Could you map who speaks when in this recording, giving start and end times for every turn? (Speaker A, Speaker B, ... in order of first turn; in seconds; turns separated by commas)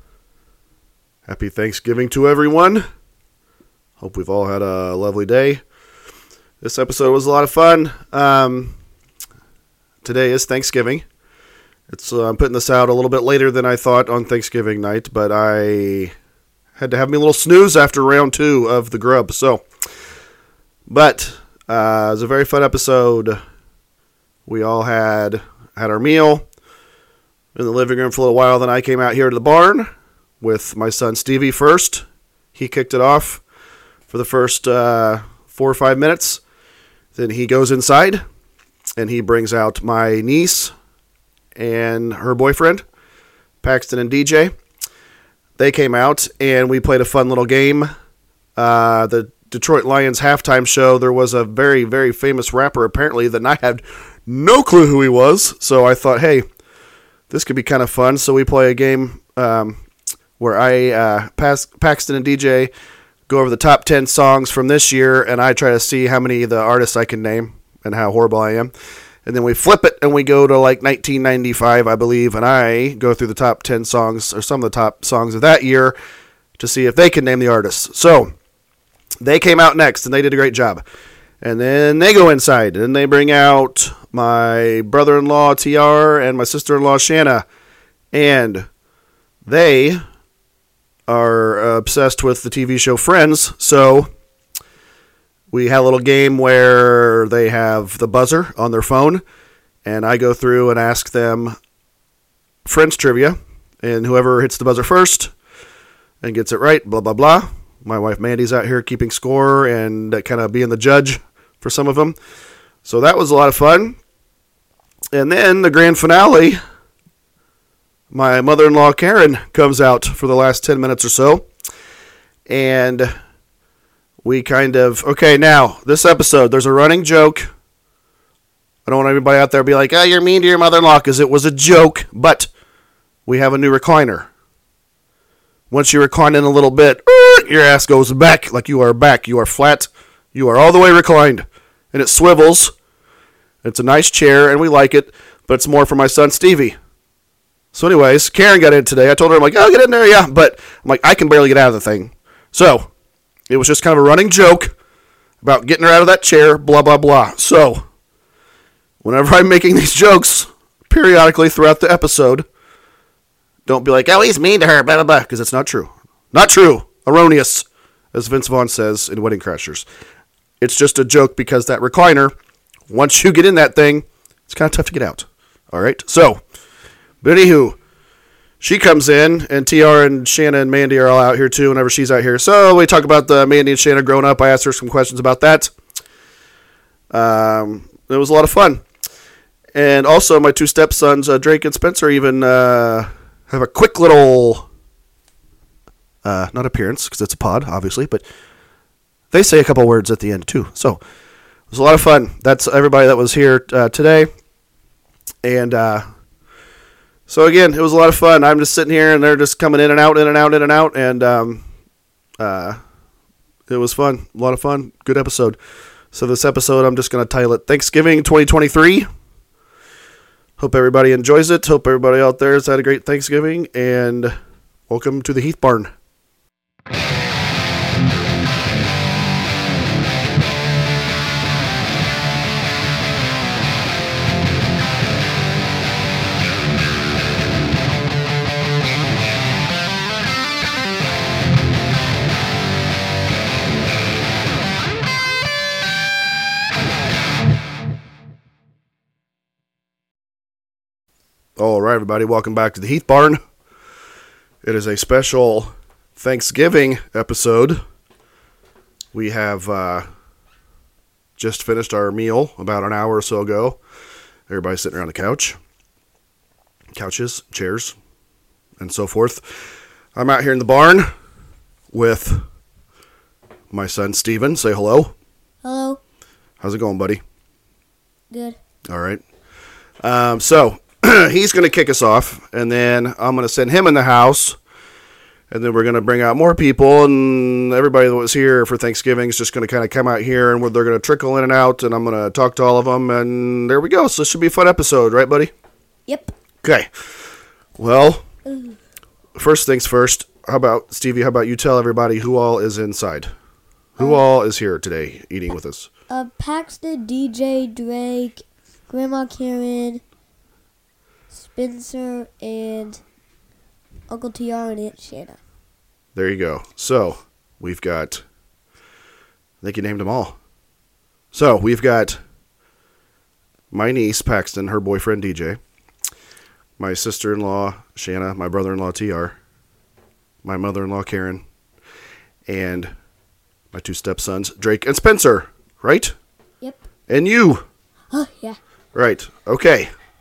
Speaker A: 1.2-2.9, Speaker A: 4.0-5.6, Speaker A: 6.6-8.8, Speaker A: 10.0-11.0, Speaker A: 11.9-16.1, Speaker A: 16.8-19.6, Speaker A: 20.9-23.4, Speaker A: 24.4-26.4, Speaker A: 27.5-29.9, Speaker A: 30.4-32.0, Speaker A: 32.5-33.4, Speaker A: 34.1-36.4, Speaker A: 37.1-38.2, Speaker A: 39.0-40.7, Speaker A: 41.5-42.8, Speaker A: 43.6-44.5, Speaker A: 45.6-47.9, Speaker A: 48.5-56.4, Speaker A: 57.3-59.8, Speaker A: 60.4-62.7, Speaker A: 63.3-68.7, Speaker A: 69.2-76.0, Speaker A: 76.6-78.3, Speaker A: 79.2-80.8, Speaker A: 81.4-87.4, Speaker A: 88.1-88.7, Speaker A: 89.5-90.0, Speaker A: 91.1-94.1, Speaker A: 95.5-99.2, Speaker A: 99.8-101.5, Speaker A: 102.6-105.3, Speaker A: 106.2-112.2, Speaker A: 112.8-114.0, Speaker A: 115.1-116.6, Speaker A: 118.1-121.5, Speaker A: 122.5-123.1, Speaker A: 124.2-127.5, Speaker A: 128.8-132.5, Speaker A: 133.2-134.3, Speaker A: 135.7-142.7, Speaker A: 143.6-146.8, Speaker A: 147.7-152.9, Speaker A: 153.5-154.7, Speaker A: 155.4-157.8, Speaker A: 159.0-162.4, Speaker A: 163.7-169.8, Speaker A: 170.6-172.3, Speaker A: 172.9-176.4, Speaker A: 177.2-177.8, Speaker A: 178.6-185.7, Speaker A: 187.1-188.8, Speaker A: 189.7-194.7, Speaker A: 196.2-198.2, Speaker A: 199.3-201.0, Speaker A: 201.7-204.3, Speaker A: 205.4-206.1, Speaker A: 207.3-211.6, Speaker A: 212.4-212.8, Speaker A: 213.7-215.6, Speaker A: 216.1-219.1, Speaker A: 220.6-224.3, Speaker A: 224.9-225.9, Speaker A: 251.6-253.4, Speaker A: 254.6-257.8, Speaker A: 259.1-260.1, Speaker A: 261.4-263.8, Speaker A: 264.5-265.6, Speaker A: 266.9-267.9, Speaker A: 268.8-271.1, Speaker A: 271.9-272.4, Speaker A: 273.7-275.1, Speaker B: 275.6-276.0, Speaker A: 276.6-277.2, Speaker B: 278.3-278.6, Speaker A: 278.9-279.2, Speaker A: 280.0-284.6, Speaker A: 285.5-295.5, Speaker B: 296.1-296.3, Speaker A: 296.6-296.9, Speaker A: 297.8-298.2, Speaker B: 298.4-298.8, Speaker A: 299.3-303.3, Speaker A: 304.0-305.9, Speaker B: 306.1-310.0, Speaker B: 311.3-313.0, Speaker B: 314.1-315.4, Speaker A: 316.1-318.2, Speaker A: 319.6-320.4, Speaker A: 321.3-322.2, Speaker A: 323.7-325.6, Speaker A: 326.8-329.3, Speaker A: 330.4-331.4, Speaker A: 332.5-332.9, Speaker A: 333.7-336.1, Speaker A: 337.1-337.6, Speaker B: 338.1-338.6, Speaker A: 338.9-339.9